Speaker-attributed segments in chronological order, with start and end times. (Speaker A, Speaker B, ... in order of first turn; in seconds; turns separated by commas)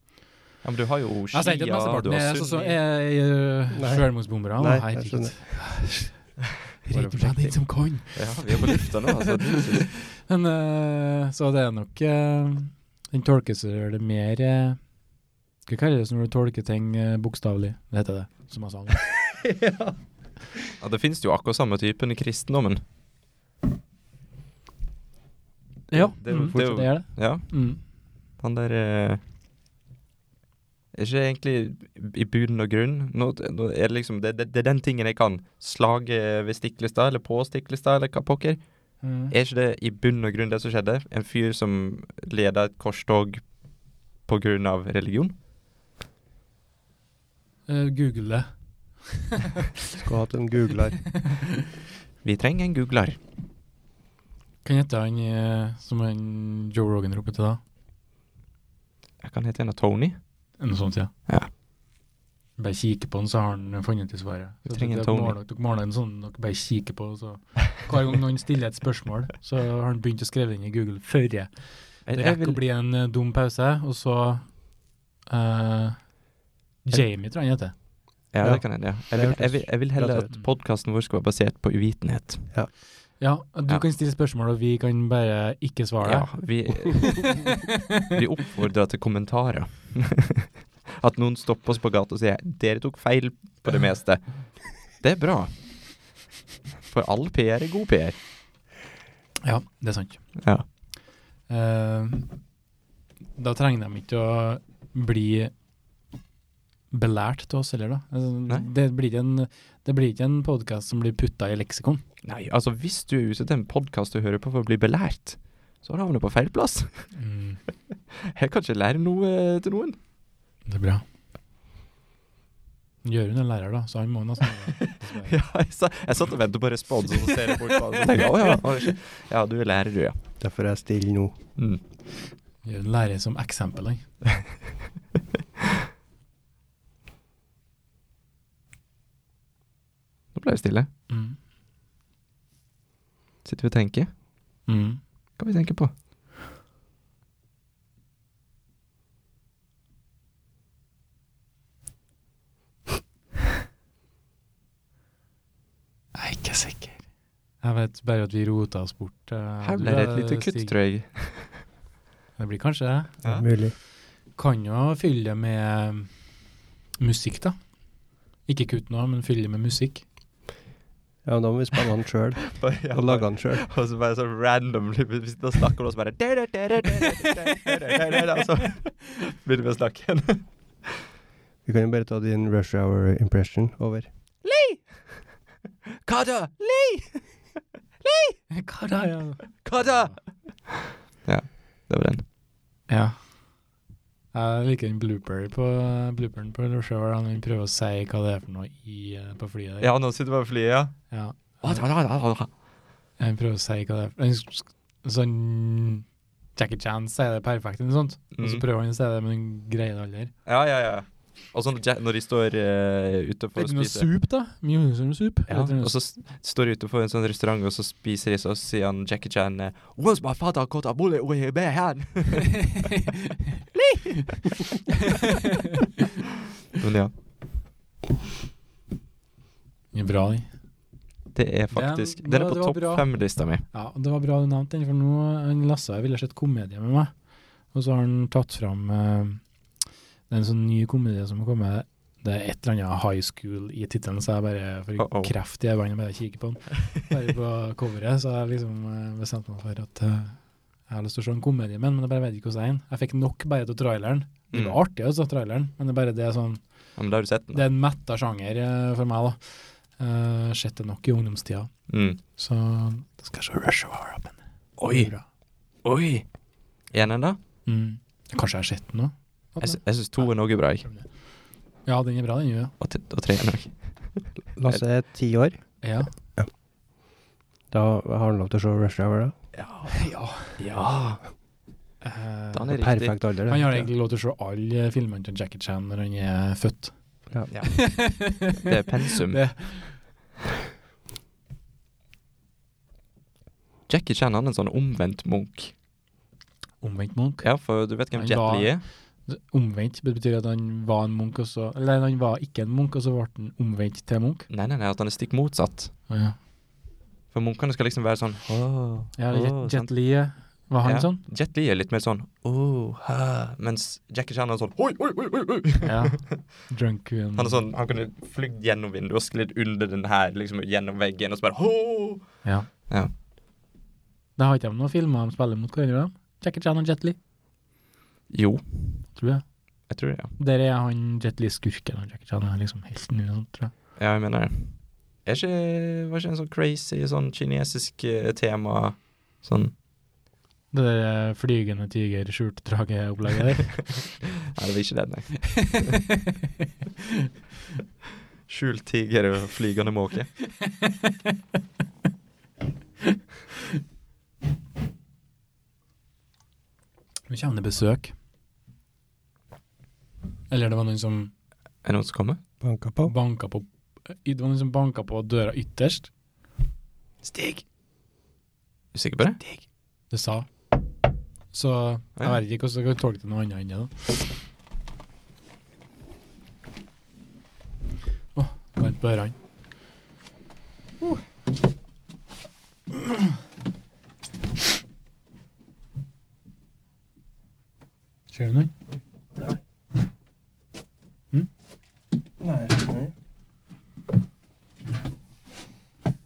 Speaker A: 0.6-2.8, Speaker B: 1.3-14.8, Speaker C: 3.7-5.7, Speaker C: 6.9-7.6, Speaker A: 8.1-9.9, Speaker B: 15.7-19.1, Speaker C: 19.3-19.9, Speaker A: 20.8-22.8, Speaker B: 25.9-27.8, Speaker A: 25.9-27.8, Speaker A: 28.4-29.2, Speaker A: 30.9-38.6, Speaker B: 39.0-39.3, Speaker A: 39.3-43.5, Speaker A: 44.2-45.3, Speaker B: 47.7-49.7, Speaker C: 50.0-51.1, Speaker B: 51.1-51.4, Speaker A: 52.2-53.2, Speaker B: 54.6-57.6, Speaker A: 59.2-60.2, Speaker B: 60.6-61.1, Speaker B: 62.6-74.6, Speaker A: 64.7-65.3, Speaker A: 72.0-72.6, Speaker B: 75.2-76.1, Speaker B: 76.8-77.7, Speaker A: 78.3-82.7, Speaker C: 78.4-80.3, Speaker B: 83.2-88.0, Speaker A: 86.0-96.1, Speaker A: 96.8-98.2, Speaker B: 99.4-100.3, Speaker A: 100.4-100.6, Speaker B: 101.5-102.3, Speaker B: 103.3-105.5, Speaker B: 106.9-112.0, Speaker A: 112.2-117.1, Speaker B: 117.1-117.6, Speaker A: 118.1-120.0, Speaker B: 120.7-121.0, Speaker B: 123.0-125.3, Speaker A: 125.2-130.2, Speaker C: 130.4-131.4, Speaker B: 132.6-134.0, Speaker A: 140.3-140.9, Speaker B: 141.1-141.4, Speaker A: 143.4-144.1, Speaker B: 144.7-145.0, Speaker A: 145.4-145.9, Speaker B: 156.1-157.0, Speaker B: 157.6-160.7, Speaker A: 159.6-161.6, Speaker B: 162.4-163.2, Speaker C: 163.2-163.8, Speaker B: 164.3-166.1, Speaker B: 167.0-167.6, Speaker B: 168.5-170.0, Speaker C: 171.2-173.7, Speaker A: 172.5-181.0, Speaker C: 181.6-184.1, Speaker A: 184.4-185.1, Speaker A: 186.0-187.3, Speaker A: 188.0-188.4, Speaker B: 188.5-190.2, Speaker A: 189.6-190.7, Speaker A: 191.2-192.2, Speaker B: 192.9-193.3, Speaker B: 194.3-199.9, Speaker A: 199.8-201.0, Speaker B: 201.1-201.8, Speaker A: 201.6-202.5, Speaker B: 203.2-206.0, Speaker B: 206.6-210.3, Speaker A: 208.3-208.6, Speaker A: 210.4-214.1, Speaker B: 213.6-215.9, Speaker A: 215.5-222.9, Speaker B: 222.5-223.6, Speaker A: 223.8-224.4, Speaker B: 224.9-225.8, Speaker A: 226.7-227.1, Speaker B: 229.9-230.5, Speaker A: 231.3-233.7, Speaker B: 231.7-233.1, Speaker B: 233.7-237.1, Speaker B: 237.7-239.4, Speaker B: 240.3-256.6, Speaker A: 245.0-245.3, Speaker A: 254.5-254.8, Speaker A: 257.0-257.6, Speaker B: 257.5-261.7, Speaker A: 261.9-262.2, Speaker B: 262.4-265.2, Speaker A: 264.8-265.1, Speaker A: 265.8-266.2, Speaker A: 266.9-267.4, Speaker B: 267.6-270.3, Speaker A: 269.6-270.8, Speaker B: 270.8-271.1, Speaker B: 271.9-272.7, Speaker A: 272.8-274.8, Speaker C: 274.6-275.6, Speaker B: 275.8-276.1, Speaker C: 277.7-279.3, Speaker A: 279.5-281.2, Speaker B: 279.9-280.6, Speaker B: 282.0-282.9, Speaker A: 282.5-283.1, Speaker C: 282.7-283.9, Speaker B: 283.5-287.0, Speaker A: 287.5-289.7, Speaker B: 287.6-290.0, Speaker A: 293.9-295.7, Speaker B: 296.8-297.5, Speaker A: 297.4-298.8, Speaker B: 298.1-304.5, Speaker A: 304.5-305.9, Speaker B: 306.1-306.4, Speaker A: 307.3-309.9, Speaker B: 309.1-311.2, Speaker A: 310.8-316.3, Speaker B: 315.8-317.6, Speaker A: 317.3-323.1, Speaker B: 324.4-327.1, Speaker A: 328.3-329.1, Speaker B: 329.1-329.4, Speaker A: 329.9-330.3, Speaker B: 330.4-333.7, Speaker A: 334.0-339.7, Speaker B: 340.7-344.0, Speaker A: 344.0-346.0, Speaker B: 345.6-346.2, Speaker A: 348.5-350.4, Speaker B: 350.6-351.2, Speaker B: 357.3-358.1, Speaker B: 360.5-361.3, Speaker A: 361.8-362.4, Speaker C: 362.6-363.1, Speaker B: 363.1-366.1, Speaker B: 367.2-367.6, Speaker A: 368.9-369.4, Speaker B: 369.4-370.5, Speaker B: 371.5-374.1, Speaker B: 378.3-379.3, Speaker B: 388.3-388.7, Speaker C: 392.4-393.1